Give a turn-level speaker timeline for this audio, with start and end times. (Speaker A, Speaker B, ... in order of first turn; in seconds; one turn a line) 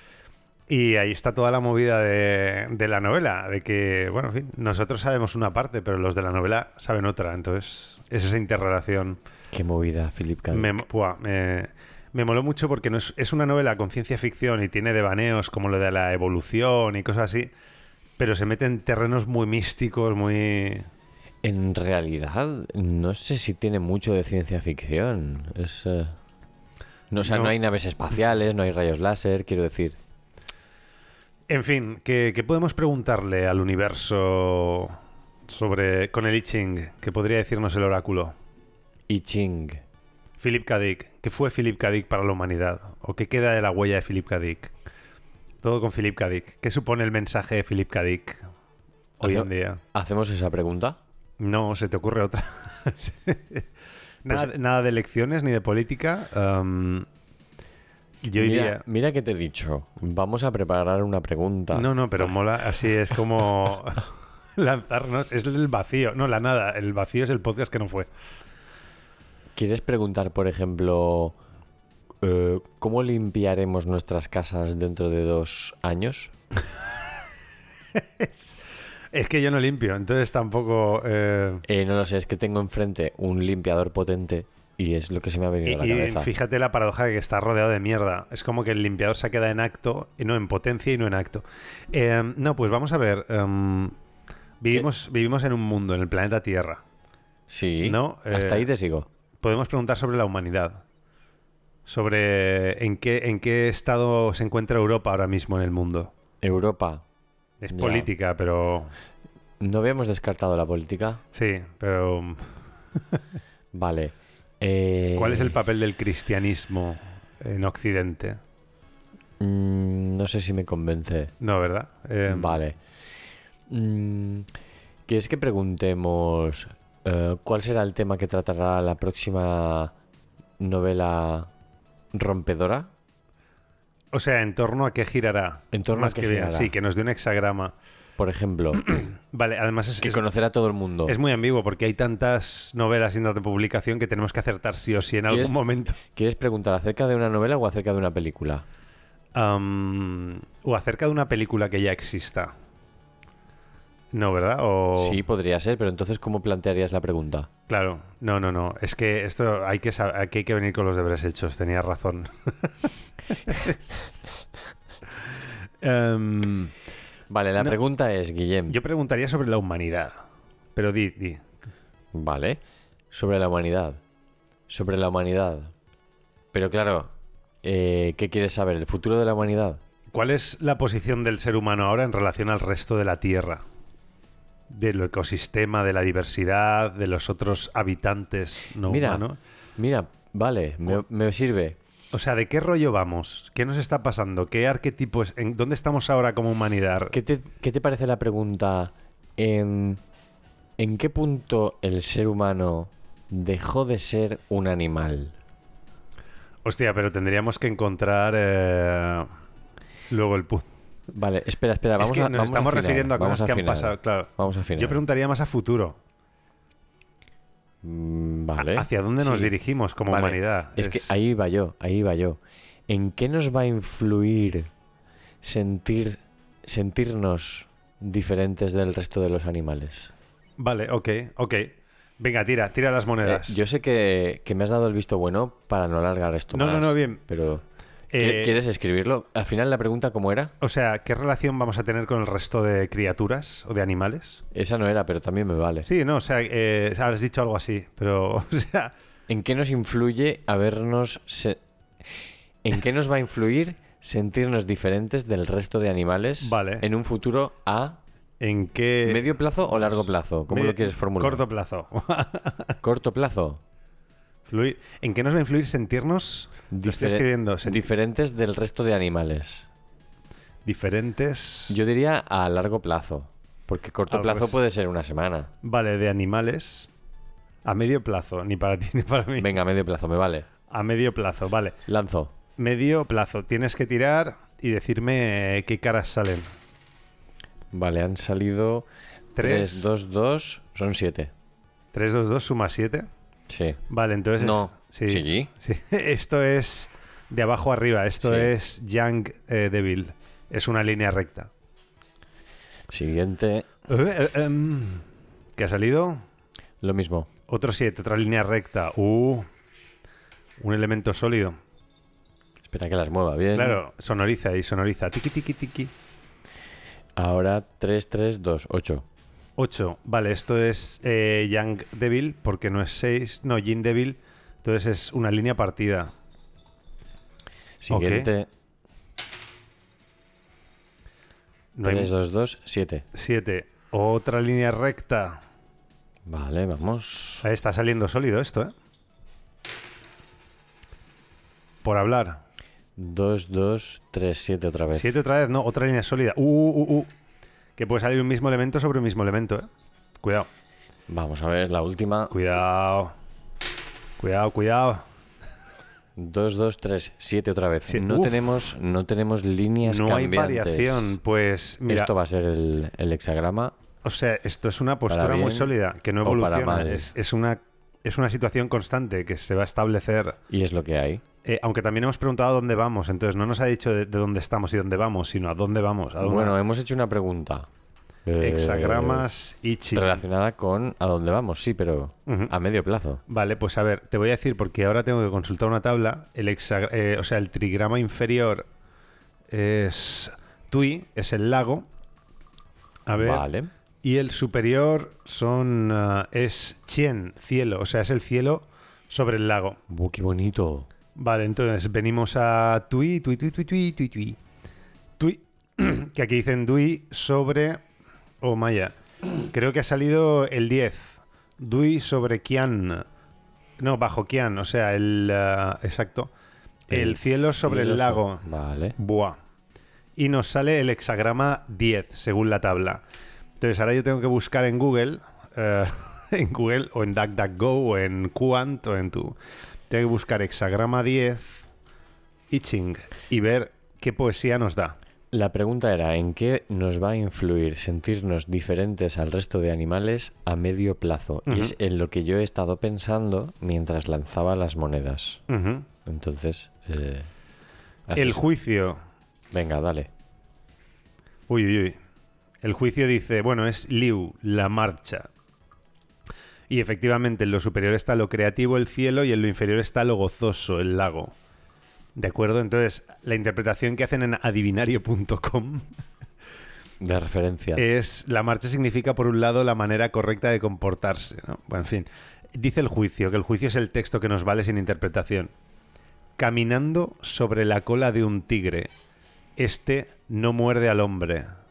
Speaker A: 0.7-9.2
Speaker B: 9.5-10.8
Speaker A: 10.5-17.5
Speaker A: 18.2-20.9
Speaker B: 21.4-26.2
Speaker B: 27.1-30.0
Speaker A: 27.2-27.5
Speaker A: 31.5-35.0
Speaker A: 35.5-38.3
Speaker B: 39.1-39.8
Speaker A: 40.4-44.7
Speaker A: 45.6-48.4
Speaker A: 49.2-49.8
Speaker B: 49.2-51.0
Speaker A: 51.4-53.7
Speaker A: 54.2-57.1
Speaker A: 58.2-58.8
Speaker B: 58.4-62.4
Speaker A: 61.7-68.1
Speaker B: 69.5-71.4
Speaker B: 72.2-76.3
Speaker A: 78.2-78.6
Speaker A: 79.1-81.6
Speaker B: 81.7-86.3
Speaker A: 85.7-94.0
Speaker A: 94.6-96.8
Speaker B: 97.5-99.1
Speaker A: 97.8-98.7
Speaker A: 99.4-100.8
Speaker A: 101.9-106.1
Speaker B: 106.4-107.0
Speaker A: 107.6-108.9
Speaker B: 107.7-108.1
Speaker B: 109.6-111.2
Speaker A: 111.3-112.5
Speaker B: 113.7-115.6
Speaker A: 115.2-118.4
Speaker B: 119.4-121.3
Speaker A: 121.4-122.6
Speaker B: 122.3-122.8
Speaker B: 123.7-124.5
Speaker B: 125.1-129.9
Speaker B: 130.6-131.5
Speaker B: 132.1-132.9
Speaker A: 134.1-137.7
Speaker B: 135.7-136.7
Speaker B: 138.2-138.9
Speaker A: 139.0-140.2
Speaker B: 140.0-141.2
Speaker A: 141.1-146.0
Speaker B: 145.3-148.7
Speaker A: 149.3-152.5
Speaker A: 154.1-155.2
Speaker B: 155.0-157.5
Speaker A: 157.7-162.9
Speaker A: 163.5-163.8
Speaker A: 165.8-166.7
Speaker B: 167.3-168.8
Speaker A: 168.7-170.2
Speaker A: 170.8-171.4
Speaker B: 172.1-172.6
Speaker B: 173.1-174.0
Speaker B: 174.7-175.7
Speaker B: 176.5-177.1
Speaker B: 177.6-179.8
Speaker A: 180.1-183.6
Speaker A: 184.7-189.4
Speaker B: 188.8-189.2
Speaker B: 189.8-191.8
Speaker A: 192.1-197.2
Speaker B: 197.1-200.0
Speaker B: 200.8-205.3
Speaker A: 206.7-209.3
Speaker A: 210.1-210.7
Speaker B: 211.1-215.0
Speaker A: 212.0-216.0
Speaker B: 217.8-219.5
Speaker A: 218.6-221.2
Speaker B: 220.1-224.7
Speaker B: 225.4-230.1
Speaker A: 230.6-233.6
Speaker B: 233.2-237.6
Speaker A: 236.5-237.2
Speaker A: 238.1-238.6
Speaker B: 238.1-240.5
Speaker A: 240.6-244.4
Speaker B: 244.5-245.9
Speaker A: 245.8-248.9
Speaker B: 249.3-251.6
Speaker B: 252.6-258.0
Speaker A: 256.4-256.9
Speaker A: 258.4-262.8
Speaker B: 259.1-261.4
Speaker B: 262.8-263.6
Speaker A: 264.5-267.9
Speaker B: 266.7-269.7
Speaker A: 270.6-271.8
Speaker B: 271.7-275.5
Speaker A: 274.1-274.6
Speaker A: 275.6-276.9
Speaker A: 277.6-279.5
Speaker B: 279.4-280.5
Speaker A: 280.7-281.8
Speaker B: 281.9-282.3
Speaker A: 282.6-286.5
Speaker B: 287.7-291.3
Speaker A: 289.4-289.8
Speaker A: 291.9-293.1
Speaker B: 293.5-293.8
Speaker A: 293.9-301.5
Speaker B: 294.4-295.5
Speaker B: 298.2-298.5
Speaker B: 302.9-303.7
Speaker A: 303.9-305.0
Speaker A: 305.6-306.2
Speaker B: 306.8-307.3
Speaker A: 307.5-309.5
Speaker A: 310.6-311.6
Speaker B: 312.6-313.8
Speaker A: 313.5-315.9
Speaker B: 317.2-319.1
Speaker A: 319.6-326.1
Speaker B: 327.8-328.5
Speaker A: 327.9-328.3
Speaker A: 331.8-332.1
Speaker B: 331.8-333.1
Speaker A: 333.1-335.4
Speaker B: 336.3-337.4
Speaker A: 337.4-338.7
Speaker A: 341.8-342.4
Speaker B: 343.0-345.2
Speaker A: 344.9-347.1
Speaker A: 347.8-349.7
Speaker A: 350.2-350.5
Speaker B: 351.1-352.3
Speaker A: 352.3-353.1
Speaker A: 354.2-355.0
Speaker B: 356.2-361.2
Speaker A: 357.9-358.5
Speaker A: 359.9-362.1
Speaker B: 361.9-363.8
Speaker A: 364.0-370.4
Speaker B: 365.1-365.7
Speaker B: 366.2-367.1
Speaker B: 370.5-371.2
Speaker A: 371.4-376.6
Speaker B: 376.2-377.7
Speaker B: 378.3-379.3
Speaker A: 378.4-380.2
Speaker B: 379.9-383.2
Speaker A: 382.3-382.5
Speaker A: 383.3-388.7
Speaker A: 389.5-391.9
Speaker A: 393.1-393.5
Speaker B: 393.2-393.7
Speaker A: 394.0-399.8
Speaker B: 399.9-400.9
Speaker A: 401.2-404.4
Speaker A: 405.2-407.8
Speaker A: 408.4-408.9
Speaker A: 409.5-413.1
Speaker A: 413.8-416.3
Speaker A: 416.9-419.4
Speaker B: 416.9-419.0
Speaker A: 420.2-423.0
Speaker A: 423.6-429.4
Speaker A: 429.9-431.6
Speaker A: 432.5-435.0
Speaker B: 435.3-445.4
Speaker A: 441.5-441.7
Speaker A: 445.5-445.9
Speaker B: 446.1-447.3
Speaker B: 448.1-448.4
Speaker A: 448.1-449.0
Speaker B: 449.5-450.1
Speaker A: 451.5-452.0
Speaker A: 452.6-455.3
Speaker A: 456.7-461.3
Speaker A: 462.2-465.9
Speaker B: 467.0-467.8
Speaker A: 467.8-475.5
Speaker A: 476.4-478.9
Speaker A: 479.6-481.5